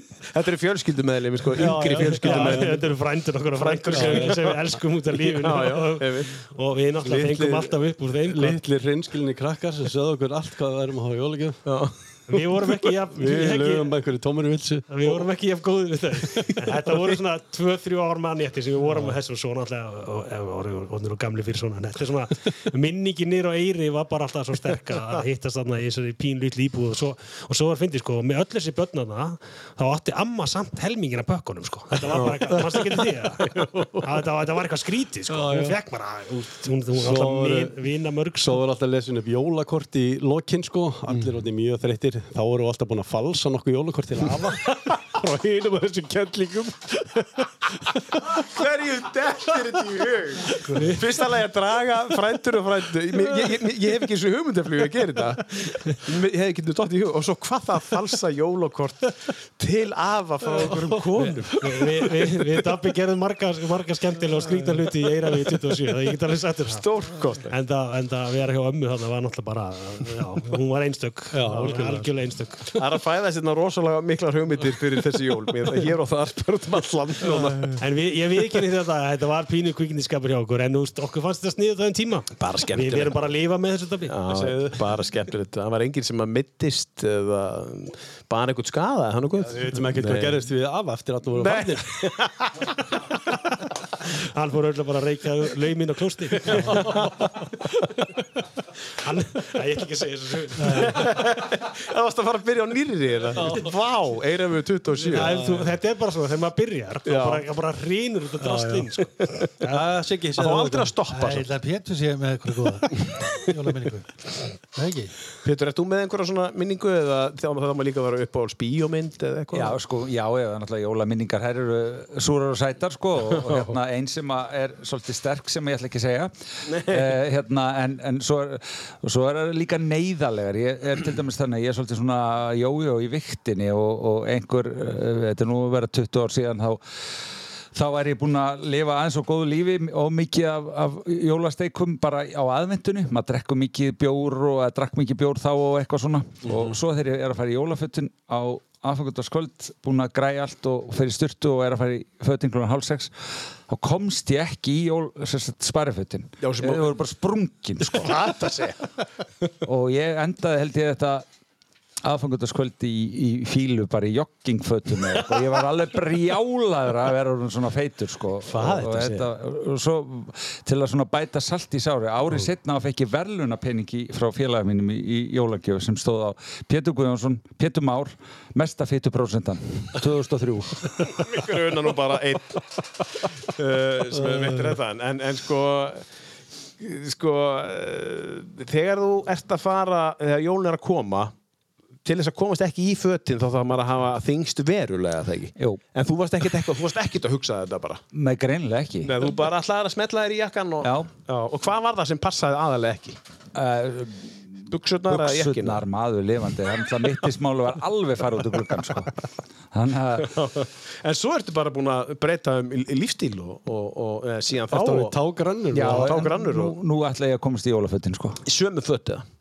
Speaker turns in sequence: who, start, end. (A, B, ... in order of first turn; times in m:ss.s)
0:00.3-0:02.8 A
0:01.6-0:02.8 B
0:01.8-0:08.6 C
0:03.5-0:04.6 A
0:03.9-0:04.4 B
0:05.2-0:06.3 A
0:07.0-0:11.6 B
0:11.6-0:12.4 A
0:12.3-0:13.9 C
0:13.1-0:15.2 B
0:14.9-0:38.6 C
0:16.2-0:16.6 B
0:18.8-0:19.1 B
0:32.1-0:32.6 A
0:32.1-0:32.5 B
0:33.4-0:34.0 A
0:35.3-0:35.8 B
0:37.0-0:37.8 B
0:38.4-0:48.4 B
0:48.2-1:02.2 A
0:50.6-0:51.0 B
1:01.6-1:06.9 C
1:06.6-1:07.5 A
1:07.5-1:12.8 C
1:11.3-1:12.1 B
1:12.7-1:17.8 A
1:17.3-1:17.6 B
1:17.8-1:24.2 C
1:22.4-1:23.3 A
1:24.1-1:30.5 A
1:24.3-1:24.7 B
1:29.4-1:32.2 B
1:31.3-1:32.7 A
1:34.1-1:37.1 C
1:36.5-1:37.1 A
1:36.7-1:37.0 B
1:39.0-1:41.2 C
1:40.6-1:45.5 A
1:43.4-1:43.7 B
1:45.0-1:45.7 B
1:45.0-1:49.9 C
1:47.0-1:47.5 A
1:48.4-1:48.9 B
1:49.7-1:50.9 B
1:50.3-1:51.5 A
1:51.1-1:54.1 D
1:54.7-1:55.1 D
1:55.4-1:59.8 A
1:59.5-2:16.8 E
2:03.4-2:03.7 A
2:06.6-2:07.2 A
2:17.7-2:33.1 E
2:26.4-2:26.7 A
2:33.7-2:38.2 E
2:36.4-2:36.9 A
2:37.8-2:38.9 A
2:39.6-2:41.2 E
2:42.0-3:01.2 E
2:48.4-2:49.3 A
3:01.0-3:06.0 A
3:04.2-3:04.7 B
3:06.8-3:11.3 A
3:12.0-3:18.0 A
3:18.1-3:19.2 E
3:19.0-3:23.2 A
3:20.8-3:21.1 E
3:23.5-3:29.1 E
3:24.7-3:25.8 A
3:29.7-3:30.4 E
3:30.2-3:35.2 A
3:34.7-3:36.2 B
3:35.7-3:38.4 E
3:35.7-3:36.8 A
3:38.4-3:39.2 A